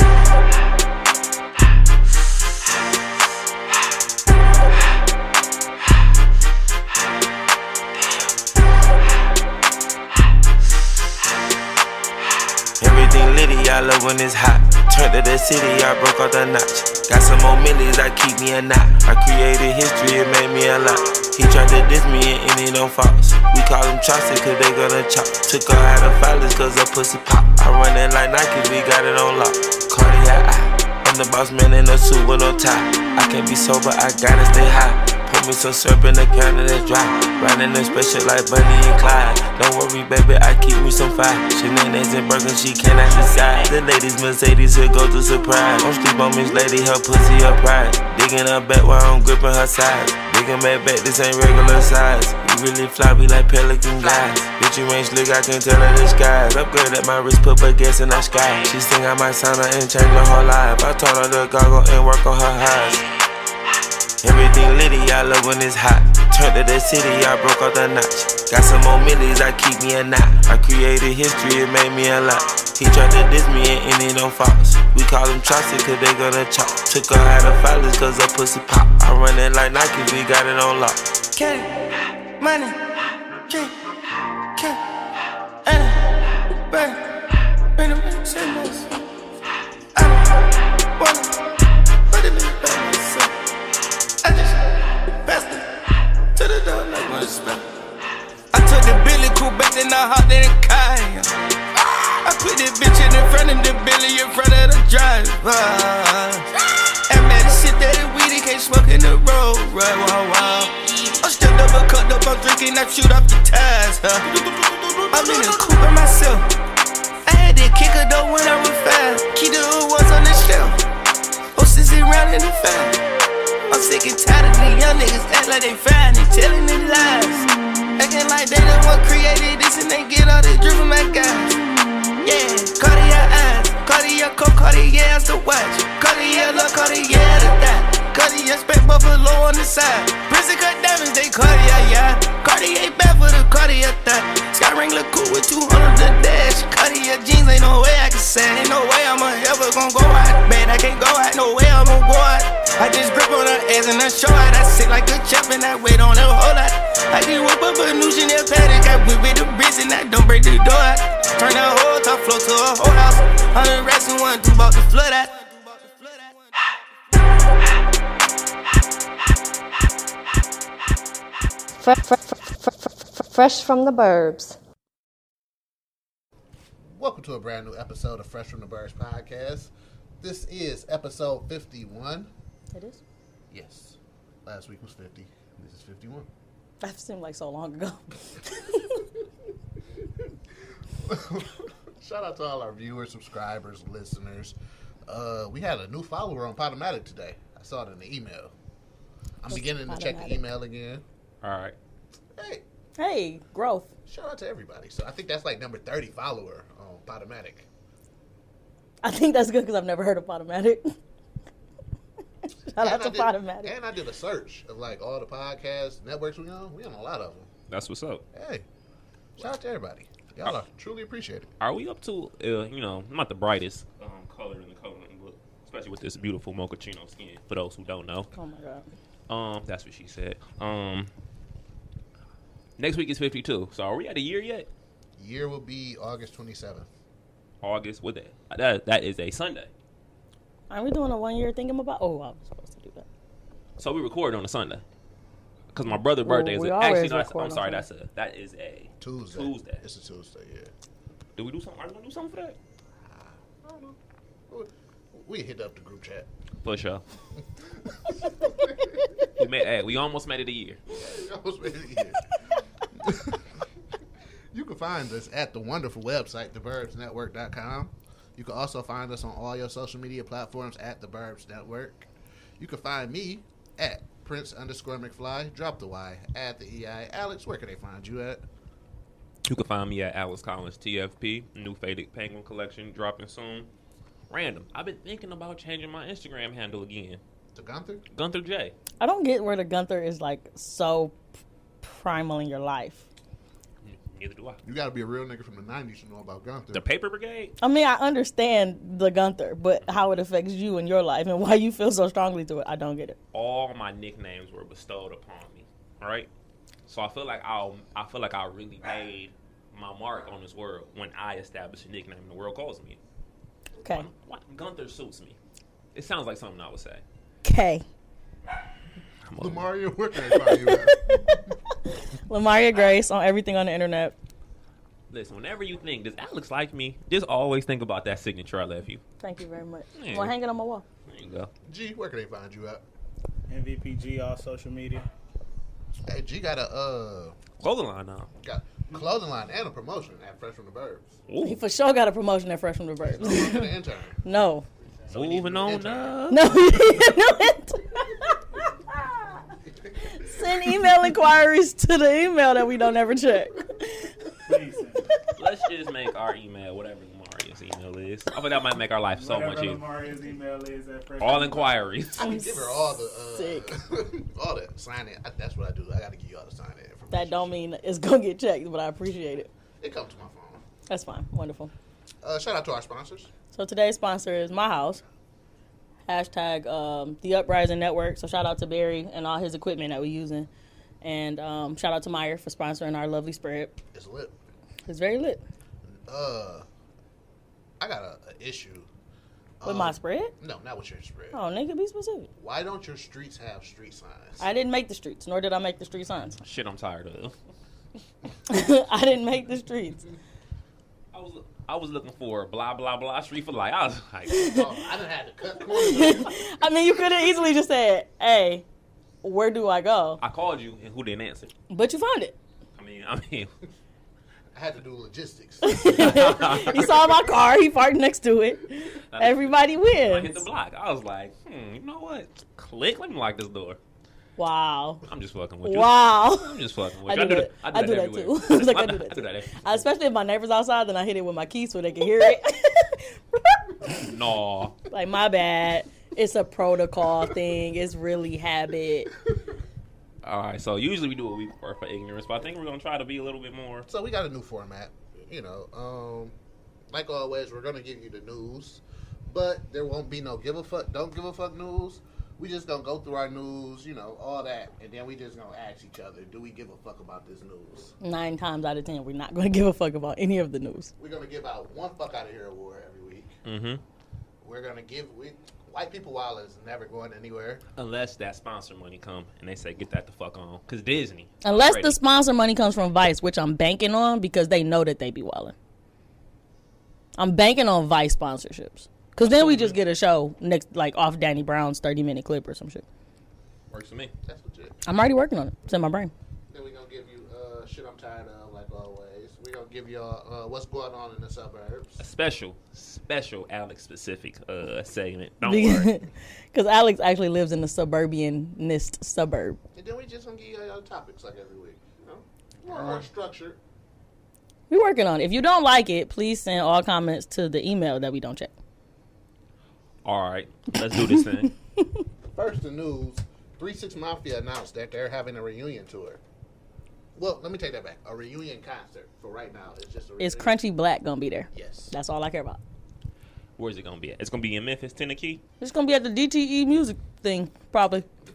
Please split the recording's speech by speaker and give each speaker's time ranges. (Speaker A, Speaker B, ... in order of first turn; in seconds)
Speaker A: 12.8-63.0, 64.2-81.2
Speaker B: 81.3-81.8, 82.4-82.8, 83.5-83.7, 85.7-87.1, 87.8-88.9, 90.0-91.5, 92.1-93.3, 94.2-95.7, 96.3-97.6, 98.5-101.3, 102.2-114.3, 115.1-116.5, 117.3-120.8, 121.5-123.0, 123.7-131.6, 132.2-166.3
Speaker C: 114.2-115.7, 201.4-201.8, 217.7-218.2, 221.6-228.3, 229.3-231.1, 232.8-234.7, 237.6-239.7, 243.8-244.8, 245.7-249.8, 251.4-252.6, 256.6-257.0, 259.4-260.8, 279.4-283.7, 284.3-287.2, 288.1-288.8, 293.8-294.6, 296.7-297.5, 303.3-306.3, 306.9-313.0, 313.9-315.4, 315.9-317.0, 319.3-319.7, 325.1-329.0, 329.9-330.4, 331.1-331.5, 337.6-338.3, 341.3-341.6, 345.1-346.5, 355.4-359.9, 361.2-362.3, 396.4-397.4, 401.1-404.6, 410.2-411.5, 412.8-413.5, 416.0-416.9, 419.1-423.8, 425.1-429.7, 433.9-434.8, 440.2-443.9, 463.4-463.8, 467.8-472.0, 479.2-479.8, 483.7-484.1, 492.0-495.9, 502.6-503.1, 510.1-511.5, 523.6-525.4
Speaker D: 171.8-174.6
Speaker E: 176.9-182.3, 183.5-186.3, 190.9-194.6, 195.1-198.5, 199.4-201.0, 202.4-202.7, 204.1-207.7, 212.8-217.5, 218.3-218.7, 219.4-221.5, 235.2-236.9, 249.0-250.7, 253.1-254.0, 254.5-256.3, 257.4-259.3, 260.9-262.3, 262.9-263.6, 264.5-278.4, 287.5-288.0, 294.6-296.9, 319.4-321.5, 331.7-332.8, 336.1-337.4, 338.4-341.2, 343.0-344.2, 345.1-346.2, 362.2-367.6, 369.8-370.6, 372.2-373.3, 383.9-384.4, 385.9-386.7, 387.8-388.9, 389.6-391.4, 392.4-394.5, 404.3-406.5, 414.5-417.3, 443.9-446.4, 446.9-457.9, 461.0-463.3, 464.4-467.6, 484.2-484.8, 486.5-492.0, 499.8-503.6, 512.3-516.2, 517.2-520.6, 521.5-521.9
Speaker F: 182.7-183.0, 186.8-189.0, 199.5-200.4, 203.0-203.9, 209.0-211.0, 212.7-213.8, 228.3-228.9, 240.7-243.1, 246.2-247.8, 289.0-291.1, 291.8-293.1, 297.6-303.2, 313.8-314.1, 317.4-317.8, 320.3-320.9, 321.9-324.1, 329.2-330.8, 341.4-343.7, 344.2-344.7, 346.3-349.4, 350.2-354.2, 362.2-363.7, 367.1-369.5, 370.9-371.7, 373.5-375.0, 376.1-380.5, 381.0-383.8, 384.9-385.4, 389.6-390.3, 391.3-392.3, 394.4-396.4, 398.5-400.0, 404.3-404.6, 405.7-408.6, 409.2-410.2, 411.7-412.4, 415.6-420.5, 424.4-425.1, 425.6-434.1, 434.9-439.1, 458.0-460.9, 471.4-475.6, 477.2-482.9, 484.9-486.1, 495.4-499.6, 504.7-508.5, 520.2-522.6, 525.6-528.1
Speaker G: 333.5-335.1, 354.5-355.1, 359.1-361.9